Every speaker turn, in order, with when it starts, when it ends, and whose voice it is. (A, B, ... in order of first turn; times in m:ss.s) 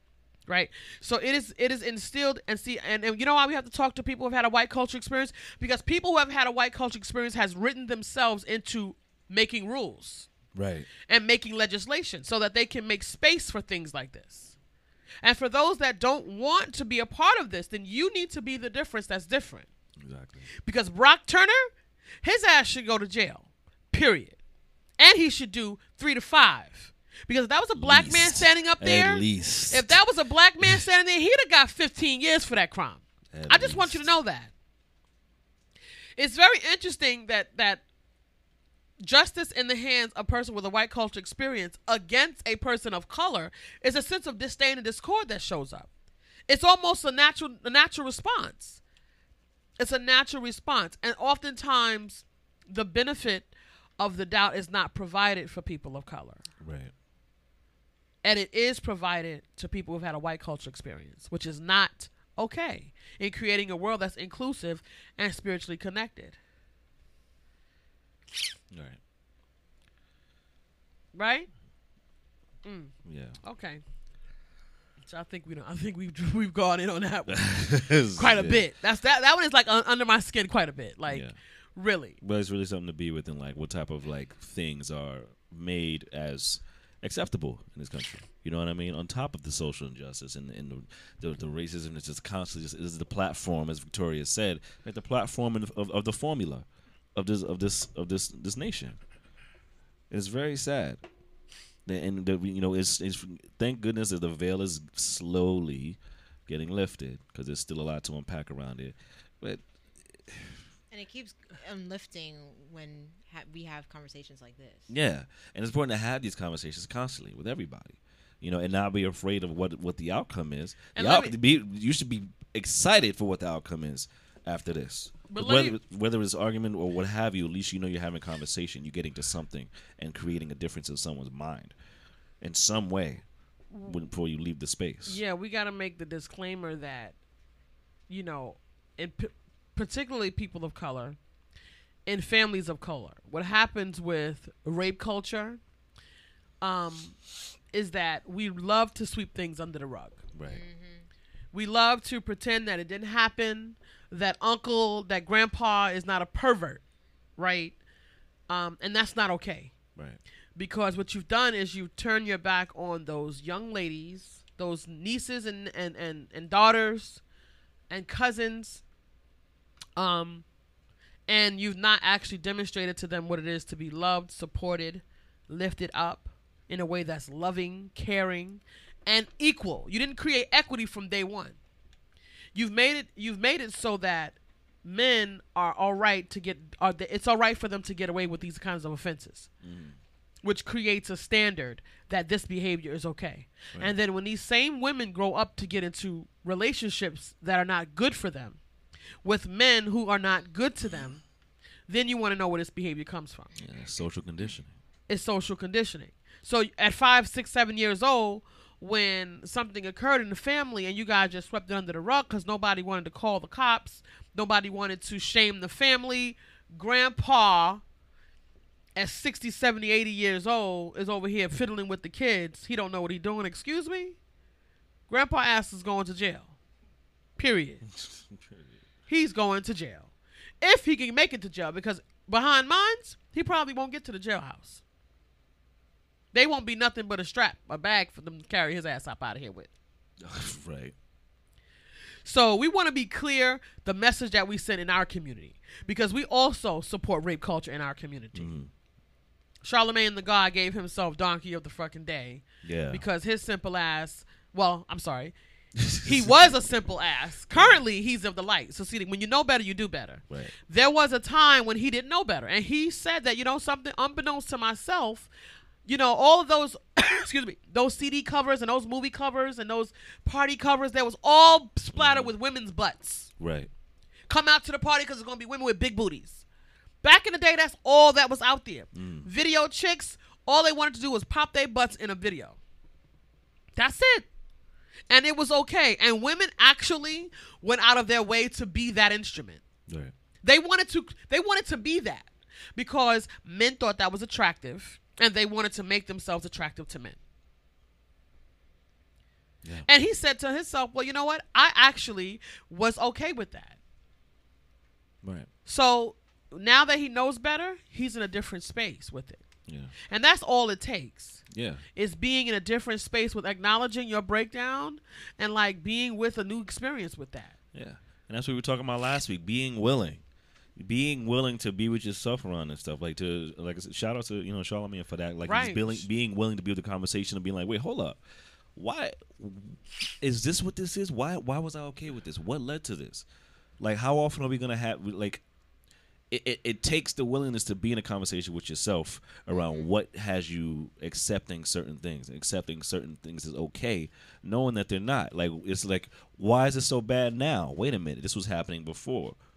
0:00.5-0:10.3 A
0:10.5-0:10.9 B
0:11.1-0:14.6 A
0:15.2-0:19.7 A
0:20.0-0:20.5 B
0:20.6-0:21.7 A
0:22.2-0:24.4 A
0:25.0-0:34.5 A
0:27.8-0:30.0 B
0:33.3-0:34.0 B
0:36.2-0:37.8 A
0:39.0-0:45.9 A
0:46.5-0:48.8 A
0:49.8-0:56.4 A
0:56.6-0:56.9 B
0:58.2-1:06.4 A
1:08.7-1:09.0 B
1:11.1-1:11.5 A
1:12.6-1:13.8 A
1:13.0-1:13.4 B
1:15.0-1:22.2 A
1:17.3-1:18.6 B
1:21.1-1:21.3 B
1:22.2-1:39.0 B
1:40.1-1:41.0 B
1:41.8-1:49.6 B
1:50.2-1:50.5 B
1:50.9-1:54.9 C
1:54.9-2:11.7 B
2:00.9-2:01.3 A
2:05.3-2:05.8 A
2:12.4-2:13.2 B
2:13.7-2:14.0 A
2:13.8-2:15.2 B
2:15.0-2:17.1 A
2:18.1-2:21.2 A
2:22.0-2:25.6 A
2:26.6-2:27.2 A
2:27.7-2:30.2 A
2:30.3-2:30.6 B
2:30.5-2:31.0 C
2:31.5-2:36.8 A
2:37.4-2:37.8 A
2:38.5-2:39.7 A
2:40.5-2:47.2 A
2:47.9-2:48.8 A
2:50.0-2:50.4 A
2:51.3-3:01.6 A
3:02.5-3:09.5 A
3:09.6-3:10.0 B
3:10.4-3:18.6 A
3:19.2-3:21.2 A
3:21.9-3:23.5 A
3:23.6-3:24.7 B
3:25.1-3:37.8 A
3:38.9-3:44.2 A
3:45.1-3:46.5 A
3:47.4-3:47.8 A
3:47.9-3:48.7 B
3:49.1-3:54.8 A
3:56.3-3:59.7 A
4:00.2-4:00.9 B
4:02.2-4:08.5 A
4:08.3-4:08.7 B
4:09.6-4:15.3 A
4:12.6-4:13.0 B
4:15.8-4:16.4 B
4:16.0-4:25.3 A
4:17.5-4:17.8 B
4:25.8-4:33.3 A
4:31.9-4:32.3 B
4:33.4-4:33.7 B
4:34.3-4:36.4 A
4:37.0-4:42.6 A
4:38.9-4:39.3 B
4:43.8-4:44.3 A
4:45.1-4:49.6 A
4:49.9-4:50.1 B
4:50.4-4:57.2 A
4:59.8-5:03.8 A
5:05.2-5:05.5 B
5:05.6-5:09.4 A
5:09.7-5:09.9 B
5:10.1-5:11.4 A
5:11.5-5:11.8 B
5:12.0-5:17.6 A
5:17.7-5:20.2 B
5:20.8-5:28.2 B
5:25.4-5:26.0 A
5:28.8-5:33.2 B
5:33.8-5:35.4 B
5:36.3-5:49.4 B
5:39.5-5:39.8 C